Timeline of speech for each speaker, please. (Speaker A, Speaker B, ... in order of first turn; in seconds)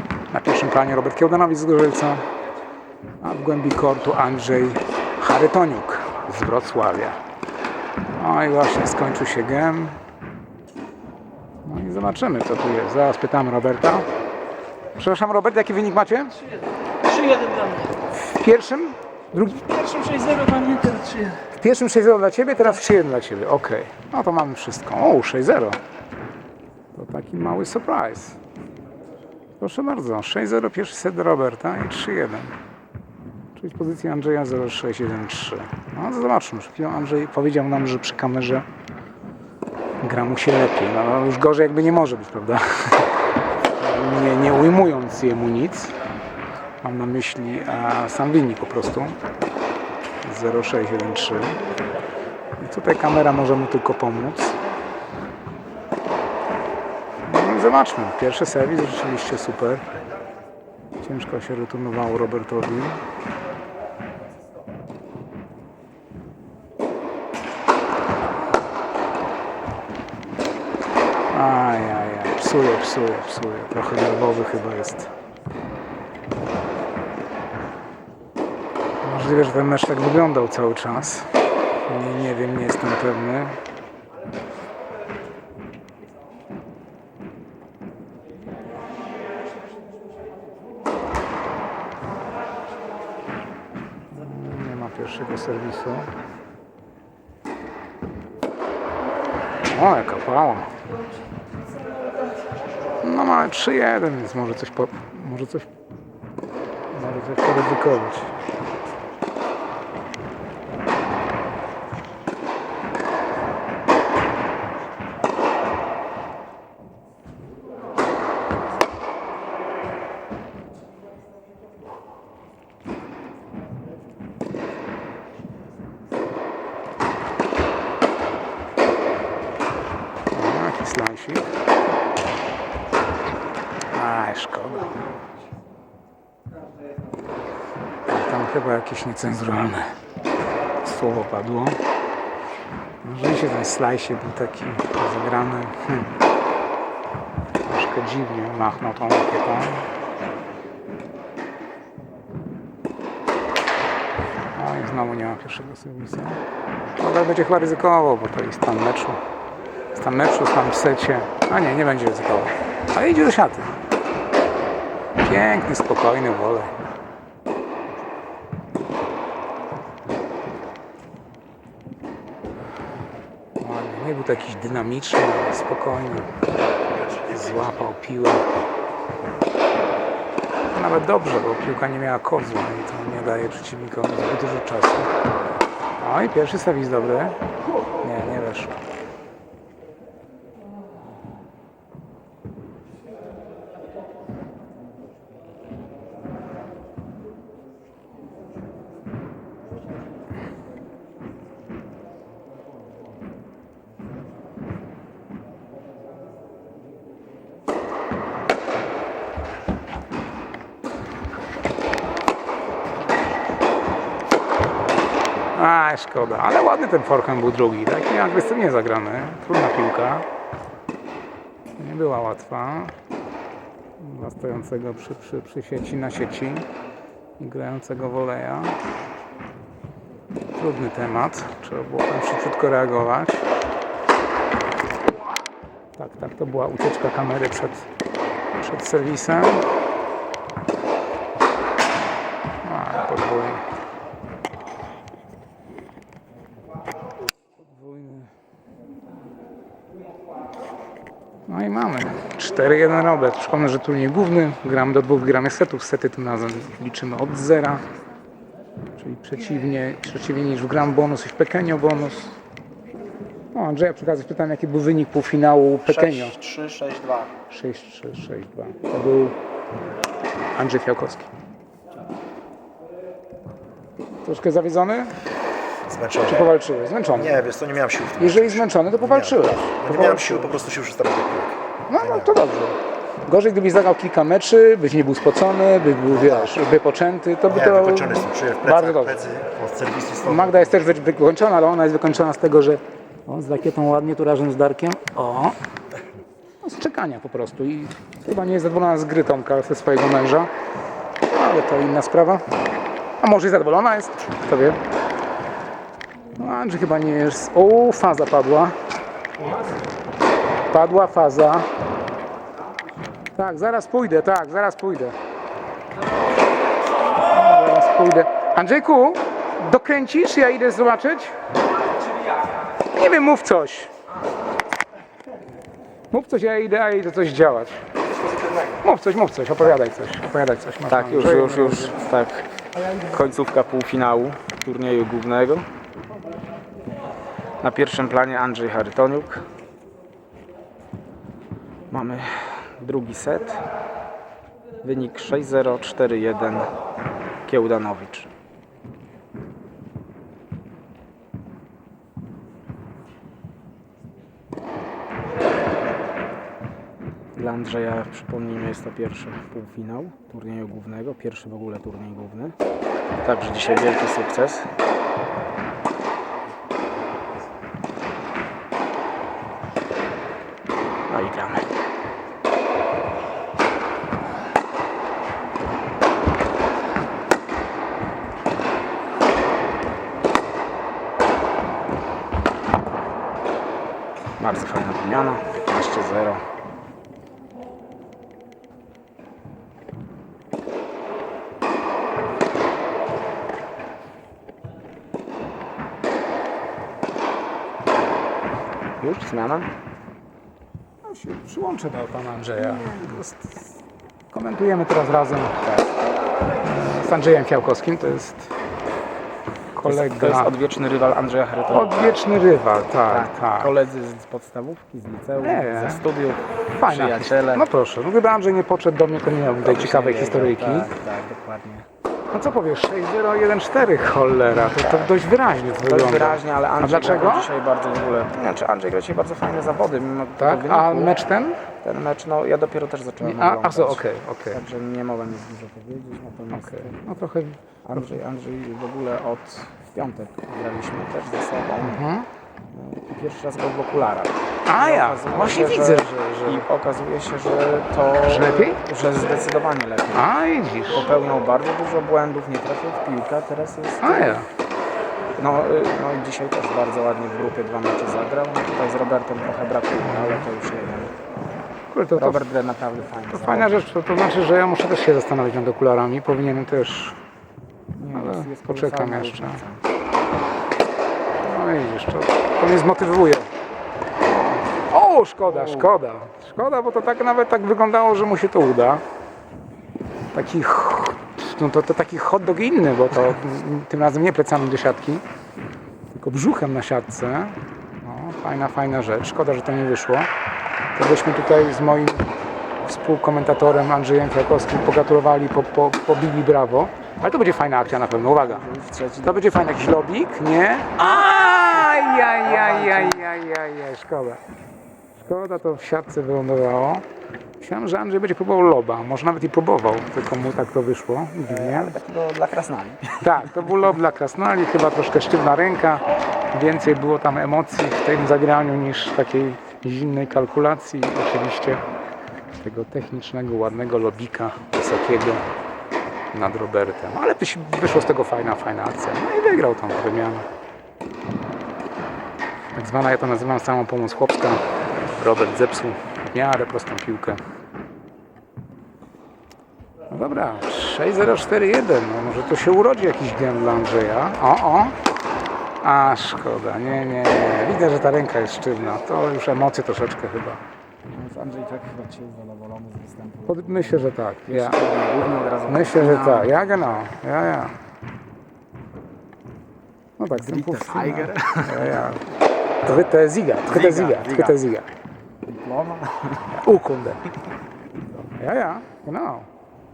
Speaker A: 0.3-2.2, 3.2-7.2, 8.2-10.0, 11.6-14.1, 15.0-16.4, 18.1-20.3, 21.3-25.8, 26.9-28.4, 29.6-32.5, 33.5-38.6, 40.0-43.1, 43.7-45.9, 46.8-49.1, 50.2-51.6, 52.6-54.5, 57.2-59.8, 61.0-63.0, 71.3-75.1, 79.0-81.3, 81.8-83.6, 94.1-96.1, 99.7-100.7, 103.0-105.7, 106.9-108.3, 130.3-131.5, 133.9-134.9, 137.9-139.9, 140.8-141.8, 143.0-146.2, 147.6-149.9, 154.5-156.4, 157.0-159.2, 159.9-163.8, 165.2-166.7, 173.6-176.3, 177.2-178.4, 180.7-185.1, 186.0-187.4, 188.0-188.8, 215.5-220.2, 221.8-222.9, 224.0-226.7, 227.4-228.8, 230.5-233.5, 235.9-237.9, 238.6-239.7, 242.6-243.6, 247.6-248.3, 251.5-257.8, 259.0-262.4, 263.5-266.4, 267.5-269.4, 270.5-271.3, 274.2-275.1, 276.2-277.5, 278.2-280.6, 281.9-289.2, 290.2-295.6, 296.6-300.5, 301.2-302.4, 303.2-304.8, 306.4-308.8, 310.7-311.7, 313.3-315.1, 317.2-321.3, 322.9-323.9, 326.1-327.8, 328.8-332.0, 401.0-403.3, 404.3-405.7, 406.6-408.5, 409.7-410.5, 411.7-413.7, 415.4-416.1, 416.7-420.9, 422.3-427.5, 430.4-431.6, 433.2-434.6, 436.6-438.1, 441.8-442.3, 444.6-446.7, 448.2-448.8, 450.1-451.1, 454.0-454.5, 460.1-460.4, 461.9-462.4, 463.3-467.2, 468.1-469.6, 471.4-473.5, 474.6-479.0, 480.3-485.2, 486.1-490.3, 490.9-498.6, 499.2-504.4, 505.2-507.0, 507.6-512.0, 513.2-521.8, 522.6-525.5, 526.3-530.5, 532.7-537.4, 540.1-545.0, 545.8-550.6, 553.5-554.8, 555.7-557.8, 560.2-562.2, 562.8-564.9, 566.5-567.3, 568.1-569.5
Speaker B: 17.1-17.8, 20.0-21.3
Speaker C: 265.9-267.3, 275.9-276.4, 277.1-282.3, 287.5-290.7
Speaker D: 330.9-335.6, 337.6-339.4, 341.9-343.6, 344.8-346.7, 347.4-348.3, 357.3-362.5, 363.2-364.7, 371.1-371.6, 384.4-386.4, 399.0-399.7, 402.9-403.2, 409.8-412.3, 413.1-417.7, 419.6-421.9, 424.6-425.1, 425.8-437.0, 437.8-442.0, 442.7-450.3, 450.9-454.4, 455.4-461.1, 462.1-463.8, 468.0-469.8, 475.5-475.9, 498.2-499.7, 502.2-503.3, 511.4-513.6, 551.1-557.0, 560.3-562.1, 563.6-564.6, 565.5-566.5